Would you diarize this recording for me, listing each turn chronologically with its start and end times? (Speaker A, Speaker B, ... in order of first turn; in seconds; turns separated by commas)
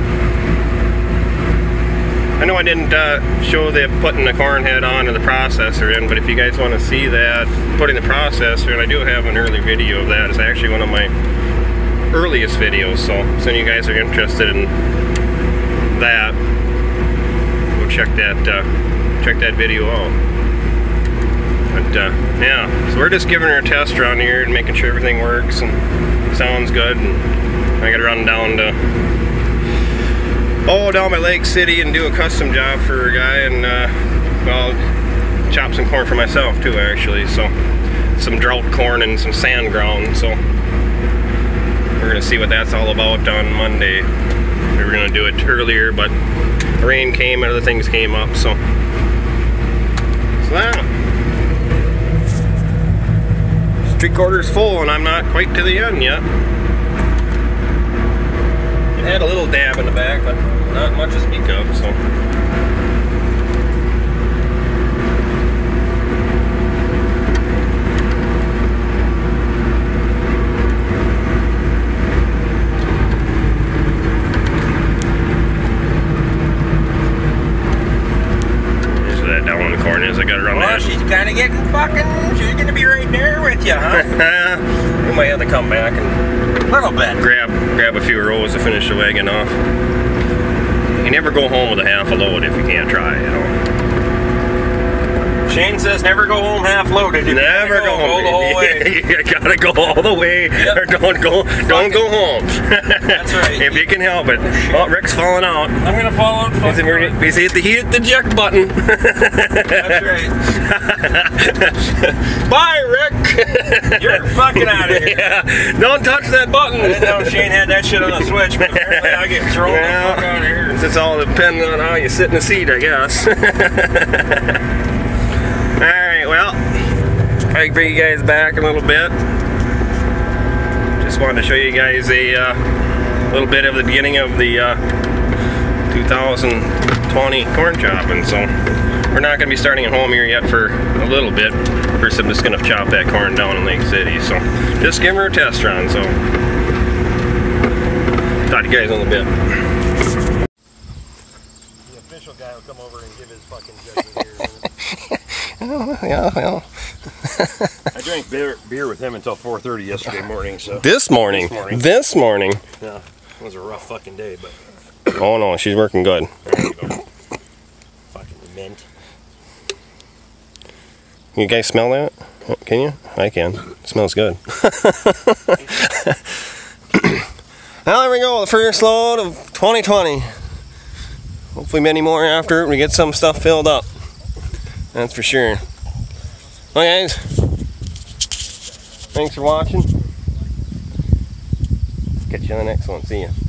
Speaker A: 2.4-11.1, Speaker A: 12.1-14.7, Speaker A: 15.9-16.4, Speaker A: 17.7-18.7, Speaker A: 19.2-20.2, Speaker A: 21.7-27.3, Speaker A: 27.8-28.8, Speaker A: 30.7-34.8, Speaker A: 35.5-37.5, Speaker A: 38.2-40.4, Speaker A: 42.0-44.1, Speaker A: 44.7-46.1, Speaker A: 46.8-48.6, Speaker A: 50.4-50.9, Speaker A: 53.8-56.2, Speaker A: 59.0-62.0, Speaker A: 78.9-81.0, Speaker B: 80.5-84.1, Speaker A: 83.9-86.2, Speaker B: 86.7-87.2, Speaker A: 87.2-89.6, Speaker A: 91.0-93.6, Speaker B: 95.5-98.9, Speaker A: 97.3-105.8, Speaker B: 101.6-102.1, Speaker B: 103.1-104.9, Speaker B: 105.8-107.2, Speaker A: 106.6-117.5, Speaker B: 109.7-110.4, Speaker B: 114.0-115.3, Speaker B: 116.8-120.8, Speaker A: 118.0-124.6, Speaker A: 125.8-126.6, Speaker A: 127.5-129.2, Speaker A: 131.0-132.6, Speaker A: 133.3-134.8, Speaker A: 135.9-138.5, Speaker A: 139.1-146.2, Speaker A: 148.5-149.3, Speaker B: 151.9-154.7, Speaker A: 154.9-156.7, Speaker A: 157.2-157.8, Speaker B: 157.9-161.8, Speaker A: 160.8-162.6, Speaker B: 162.8-164.6, Speaker A: 165.1-166.3, Speaker B: 166.5-167.0, Speaker B: 168.1-168.8, Speaker A: 171.3-176.2, Speaker A: 176.9-177.2, Speaker A: 177.8-180.3, Speaker A: 181.6-183.9, Speaker A: 184.9-185.6, Speaker A: 186.7-187.3, Speaker A: 189.1-189.9, Speaker A: 192.3-193.3